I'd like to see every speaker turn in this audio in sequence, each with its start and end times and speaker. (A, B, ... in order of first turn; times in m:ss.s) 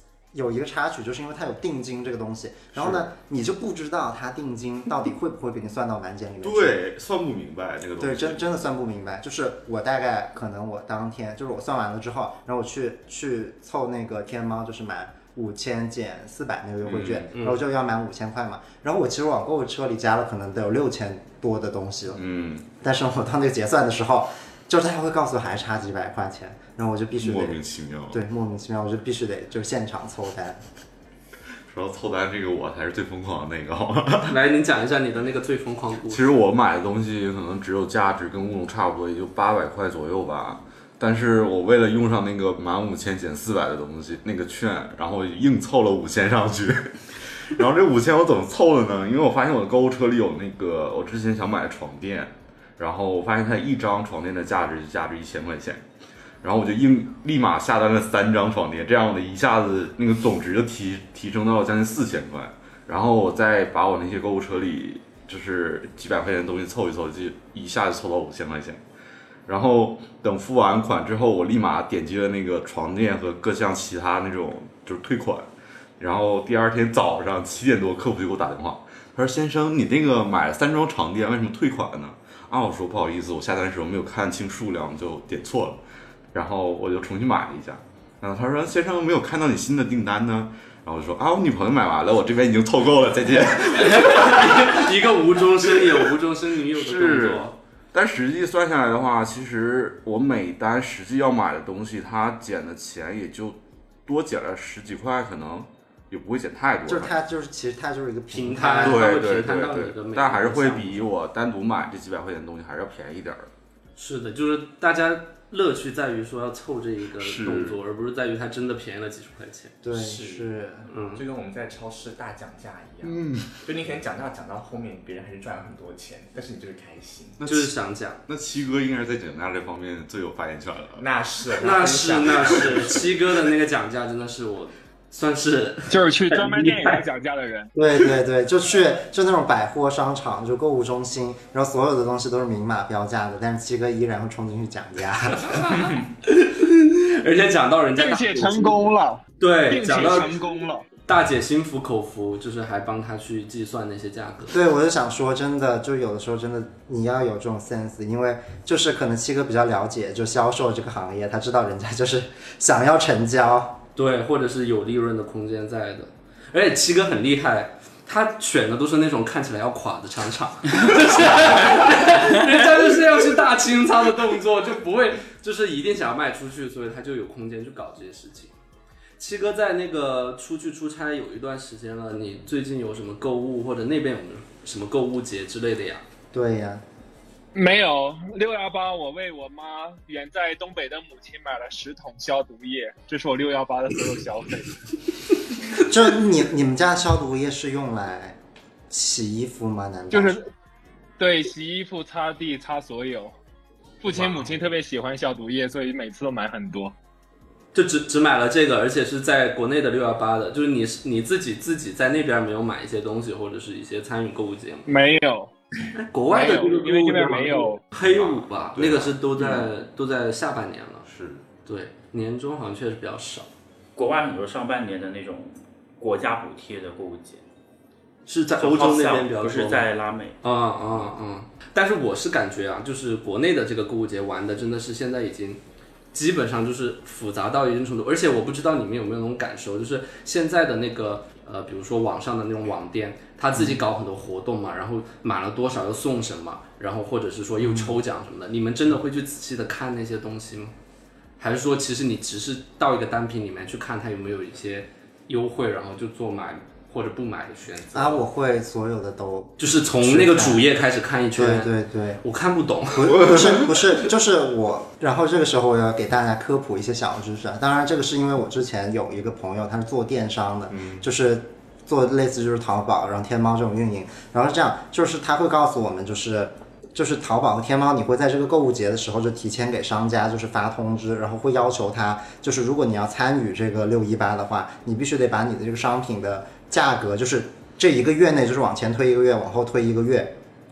0:00.3-0:06.8 A
0:02.7-0:03.0 B
0:06.4-0:08.4 B
0:08.0-0:22.2 A
0:16.8-0:17.3 B
0:17.3-0:17.6 C
0:22.1-0:22.7 B
0:22.8-0:27.6 A
0:27.2-0:28.2 B
0:28.1-0:30.6 A
0:31.7-0:34.4 B
0:34.2-0:36.3 C
0:36.1-0:55.8 B
0:56.4-1:08.8 B
1:09.5-1:15.5 B
1:16.0-1:25.8 B
1:26.3-1:34.9 B
1:33.6-1:37.6 C
1:35.6-1:36.1 B
1:36.7-1:47.1 B
1:46.8-1:49.1 A
1:48.3-1:51.1 C
1:48.8-1:53.5 B
1:54.0-1:59.7 C
1:57.2-1:57.8 B
1:59.8-2:00.9 A
1:59.9-2:00.5 D
2:00.9-2:01.2 C
2:01.1-2:07.4 D
2:03.0-2:03.6 B
2:07.4-2:07.7 B
2:07.4-2:08.2 C
2:08.3-2:11.0 B
2:11.0-2:13.1 D
2:11.6-2:17.0 C
2:15.9-2:17.7 E
2:17.7-2:25.9 A
2:25.4-2:28.8 C
2:28.0-2:30.8 E
2:29.4-2:30.3 C
2:31.0-2:34.5 C
2:34.5-2:43.8 A
2:44.0-2:58.5 C
2:59.2-3:06.0 C
3:06.3-3:06.8 A
3:07.5-3:14.9 E
3:15.7-3:18.4 A
3:18.9-3:20.4 A
3:20.1-3:20.5 E
3:21.2-3:23.3 E
3:24.0-3:26.9 E
3:27.7-3:34.9 C
3:34.8-3:35.5 E
3:36.0-3:41.0 C
3:36.3-3:37.8 E
3:38.0-3:39.7 B
3:41.0-3:41.4 B
3:41.6-3:43.5 C
3:44.0-3:47.4 F
3:48.3-3:49.9 C
3:48.6-3:50.4 F
3:50.4-3:55.6 C
3:56.1-4:10.7 C
4:11.4-4:18.2 C
4:17.9-4:20.6 A
4:19.6-4:23.5 C
4:21.3-4:22.2 A
4:22.9-4:50.3 A
4:30.7-4:31.0 B